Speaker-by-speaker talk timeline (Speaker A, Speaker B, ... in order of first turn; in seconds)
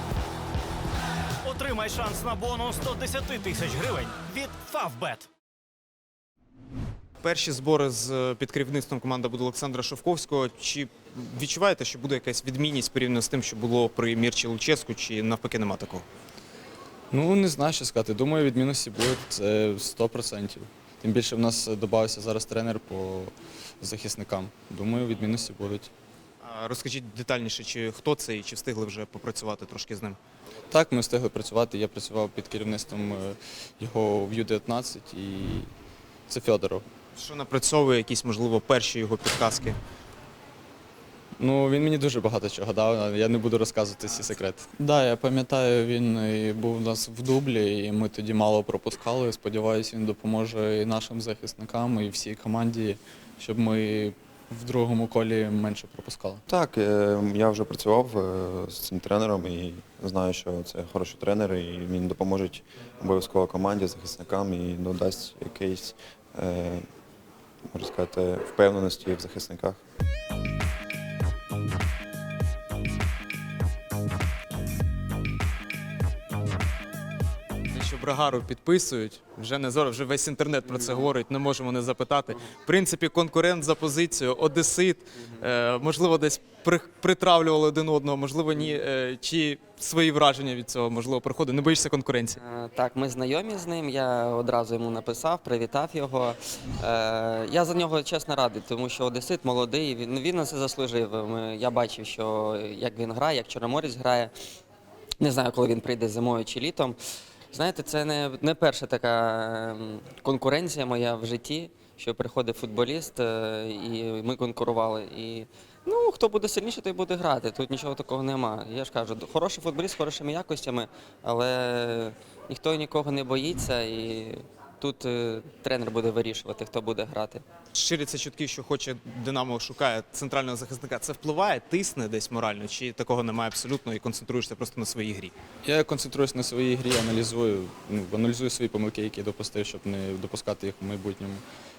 Speaker A: 1.4-5.3
Speaker B: 7.2-16.0, 26.4-30.2, 37.1-39.8, 77.7-92.4, 127.7-135.3
Speaker C: 17.1-25.9, 30.7-35.7, 36.3-36.8, 41.4-56.4, 135.6-141.4
Speaker D: 56.5-66.8, 67.7-69.8
Speaker E: 92.4-104.3, 105.2-107.0, 107.5-127.4